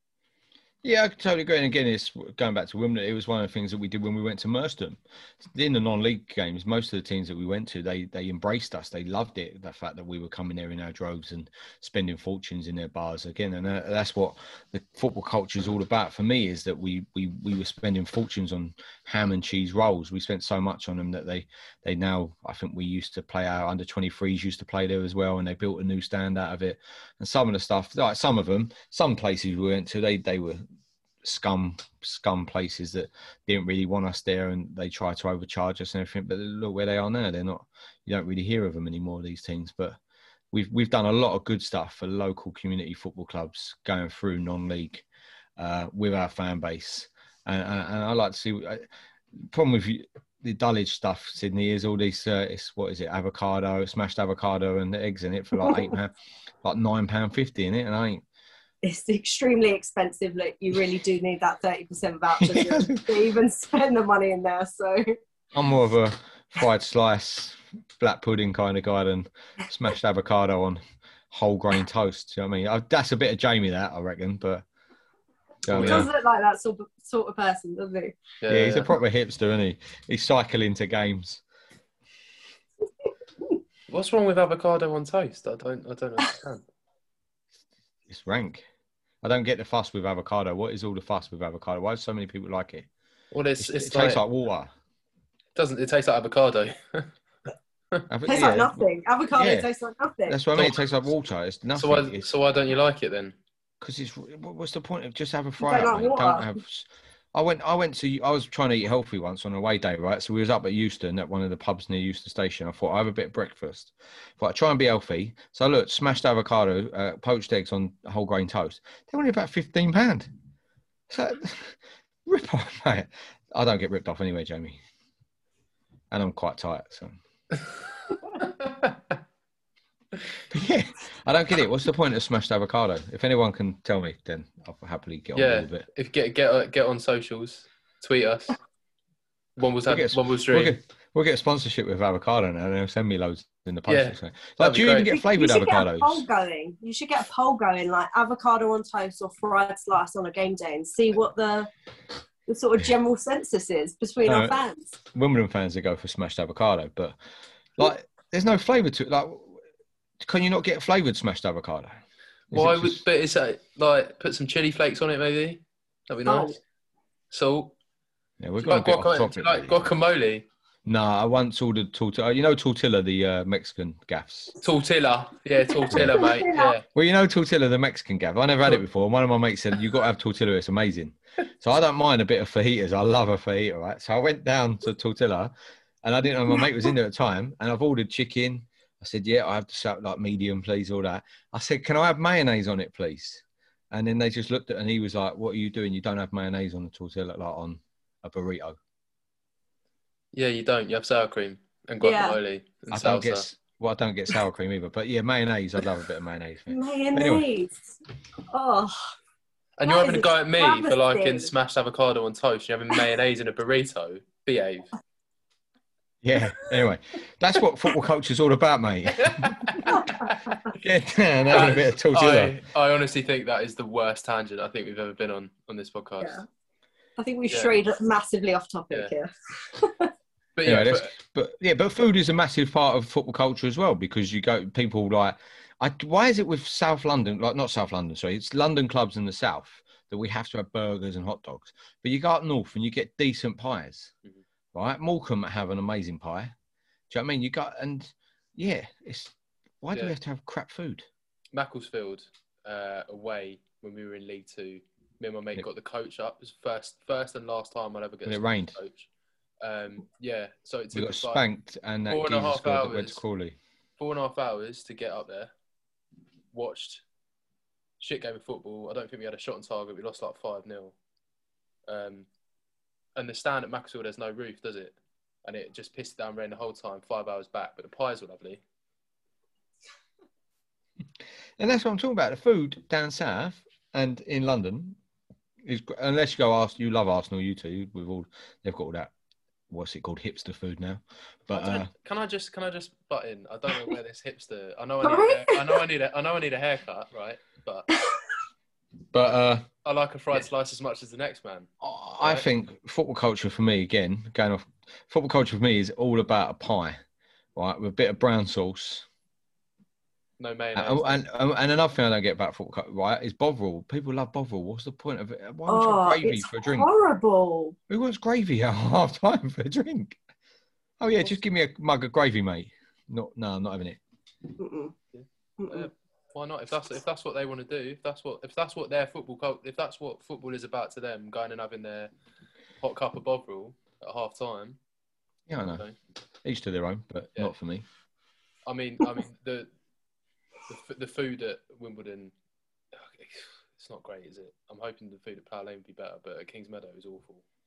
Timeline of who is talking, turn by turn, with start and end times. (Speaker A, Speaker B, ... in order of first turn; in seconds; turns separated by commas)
Speaker A: 0.8-30.6, Speaker A: 31.2-40.0, Speaker A: 40.5-45.0, Speaker A: 45.6-48.9, Speaker A: 49.4-58.2, Speaker B: 58.8-65.0, Speaker A: 62.4-63.1, Speaker A: 65.5-74.6, Speaker A: 75.6-76.1, Speaker C: 75.7-76.1, Speaker B: 75.7-78.2, Speaker C: 78.4-78.9, Speaker A: 78.5-81.4, Speaker C: 83.9-86.6, Speaker A: 88.1-88.6, Speaker A: 89.2-92.9, Speaker C: 93.3-94.2, Speaker A: 93.6-94.7, Speaker C: 95.5-97.1, Speaker A: 98.1-98.8, Speaker B: 98.3-100.4, Speaker A: 99.4-99.7, Speaker A: 100.3-102.3, Speaker C: 101.7-103.4, Speaker A: 103.8-120.3, Speaker B: 105.6-106.5, Speaker A: 121.1-124.8, Speaker A: 126.1-127.2, Speaker C: 128.4-129.2, Speaker A: 130.5-135.8, Speaker C: 135.3-138.6, Speaker C: 139.6-140.8, Speaker A: 139.9-146.2, Speaker C: 143.9-145.1, Speaker B: 145.1-151.7, Speaker B: 152.5-154.9, Speaker A: 154.2-157.2, Speaker A: 157.8-159.6, Speaker A: 160.2-162.0, Speaker A: 162.5-163.0, Speaker C: 162.5-166.6, Speaker B: 166.2-166.6, Speaker C: 167.3-167.7, Speaker A: 168.4-169.9, Speaker C: 168.6-170.5, Speaker A: 170.8-174.6, Speaker C: 174.6-176.8, Speaker B: 175.9-176.8, Speaker A: 175.9-176.2, Speaker A: 176.9-198.8, Speaker C: 200.3-203.4, Speaker B: 202.0-202.4, Speaker A: 202.9-207.4, Speaker B: 206.7-207.9, Speaker B: 208.5-208.9, Speaker C: 209.8-214.9, Speaker B: 209.8-211.5, Speaker A: 216.2-220.0, Speaker C: 219.2-220.6, Speaker B: 219.9-220.5, Speaker A: 220.7-222.5, Speaker C: 221.5-226.4, Speaker B: 227.2-230.1, Speaker C: 227.5-227.8, Speaker C: 230.6-231.1, Speaker A: 230.7-244.1, Speaker A: 244.7-246.5, Speaker A: 247.1-251.1, Speaker C: 251.5-259.1, Speaker A: 258.2-258.8, Speaker C: 259.6-261.4, Speaker A: 260.9-263.6, Speaker C: 262.1-263.2, Speaker C: 264.0-265.5, Speaker C: 266.5-267.0, Speaker C: 268.0-271.0, Speaker C: 271.9-272.3, Speaker C: 273.1-278.6, Speaker A: 281.6-285.0, Speaker A: 285.6-289.1, Speaker A: 289.7-291.9, Speaker C: 291.5-297.9, Speaker B: 295.0-295.8, Speaker A: 299.1-299.7, Speaker C: 299.8-301.7, Speaker A: 301.8-307.0, Speaker C: 302.2-302.5, Speaker A: 307.5-309.1, Speaker C: 310.4-311.2, Speaker A: 310.8-316.9, Speaker B: 315.7-317.8, Speaker A: 317.9-320.2, Speaker A: 321.0-324.0, Speaker B: 324.6-324.9, Speaker C: 325.1-332.1, Speaker B: 325.6-325.9, Speaker C: 332.8-334.8, Speaker A: 335.5-335.9, Speaker A: 336.4-337.9, Speaker C: 338.6-339.7, Speaker C: 340.7-342.3, Speaker C: 342.9-347.4